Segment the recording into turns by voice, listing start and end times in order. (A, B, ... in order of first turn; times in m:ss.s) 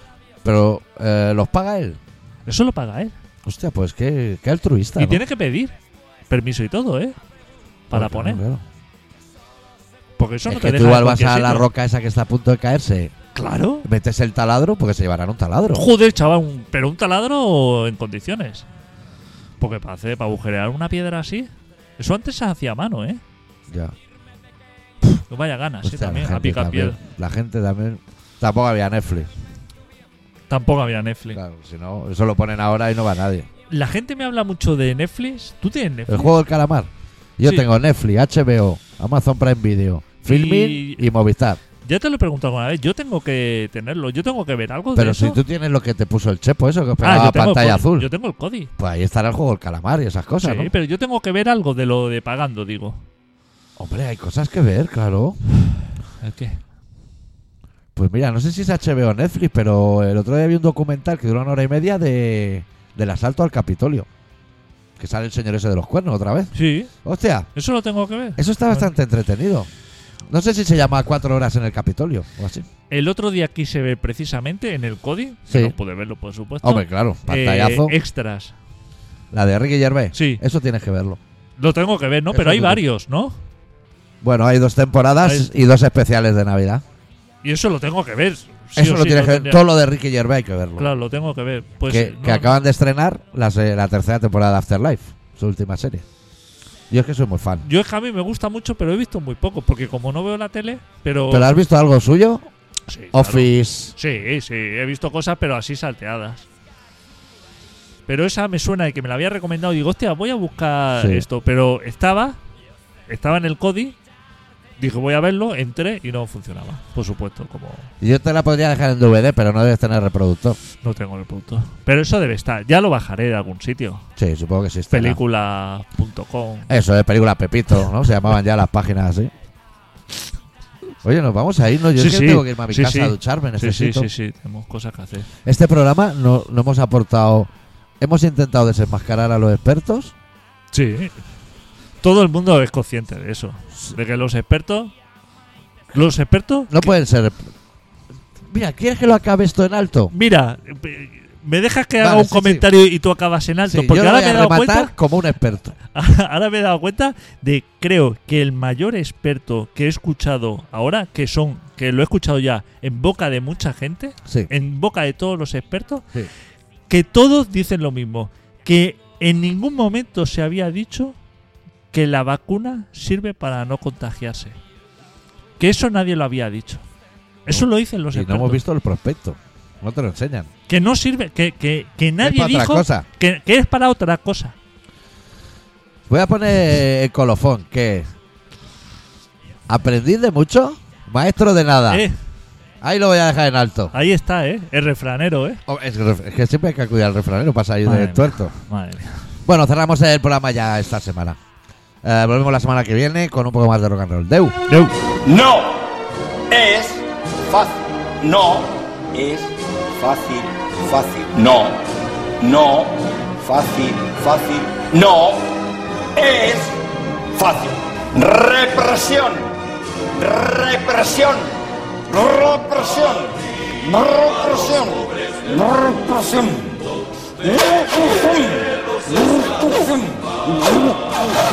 0:00.4-0:02.0 A
0:02.4-0:03.1 B
0:03.4-0:05.2 A
0:05.0-0:05.7 B
0:06.3-0:07.2 B
0:07.9-0:08.4 B
0:07.9-0:08.6 A
0:10.2-0:11.7 B
0:10.5-0:13.1 A
0:13.3-0:13.9 B
0:13.8-0:15.8 A
0:15.7-0:18.7 B
0:19.6-0:23.2 B
0:23.7-0:23.9 A
0:25.3-0:27.0 B
0:25.8-0:29.3 A
0:30.5-0:31.4 B
0:31.3-0:33.5 A
0:33.7-0:36.3 B
0:36.1-0:41.6 A
0:40.2-0:41.1 B
0:41.8-0:45.4 B
0:44.9-0:48.1 A
0:47.0-0:48.7 B
0:48.8-0:50.7 A
0:50.4-0:53.0 B
0:53.8-0:55.4 A
0:56.2-0:56.6 B
0:57.9-1:04.1 A
1:05.0-1:06.5 A
1:06.5-1:06.9 B
1:07.0-1:07.5 A
1:07.5-1:08.9 B
1:08.4-1:09.7 A
1:10.3-1:12.7 A
1:12.9-1:18.5 B
1:15.5-1:15.7 A
1:16.6-1:17.9 A
1:19.3-1:21.2 A
1:20.1-1:20.4 B
1:21.6-1:23.4 B
1:22.3-1:22.8 A
1:24.2-1:26.8 A
1:25.2-1:25.5 B
1:27.4-1:29.6 B
1:28.7-1:30.9 A
1:30.8-1:32.5 B
1:31.9-1:36.0 A
1:36.9-1:37.6 A
1:37.6-1:41.6 B
1:41.3-1:42.4 A
1:42.9-1:46.5 B
1:43.1-1:43.9 A
1:48.1-1:52.4 B
1:51.0-1:51.2 A
1:53.1-1:54.0 B
1:54.8-1:57.9 B
1:58.0-2:00.6 A
2:00.8-2:04.0 B
2:04.2-2:05.2 A
2:04.9-2:06.7 B
2:06.7-2:09.3 A
2:11.0-2:14.1 A
2:11.9-2:15.3 B
2:15.4-2:20.1 A
2:20.7-2:21.2 B
2:22.0-2:24.9 B
2:25.9-2:26.9 B
2:26.7-2:27.5 A
2:28.5-2:30.1 A
2:30.1-2:34.9 B
2:32.0-2:32.6 A
2:33.6-2:35.7 A
2:35.9-2:46.0 B
2:46.9-2:51.2 B
2:51.9-2:54.6 B
2:55.6-2:56.8 B
2:57.4-2:58.6 B
2:57.5-3:00.5 A
3:00.7-3:04.5 B
3:02.2-3:03.0 A
3:06.1-3:08.1 A
3:09.7-3:12.0 A
3:11.9-3:12.1 B
3:12.8-3:13.9 A
3:13.9-3:15.6 B
3:15.7-3:18.5 A
3:17.8-3:19.3 B
3:19.4-3:21.4 A
3:22.0-3:24.6 A
3:24.7-3:24.9 B
3:25.2-3:25.9 C
3:26.5-3:31.8 C
3:32.4-3:35.5 C
3:36.1-3:36.8 C
3:37.3-3:39.5 C
3:40.1-3:41.5 C
3:42.1-3:51.1 C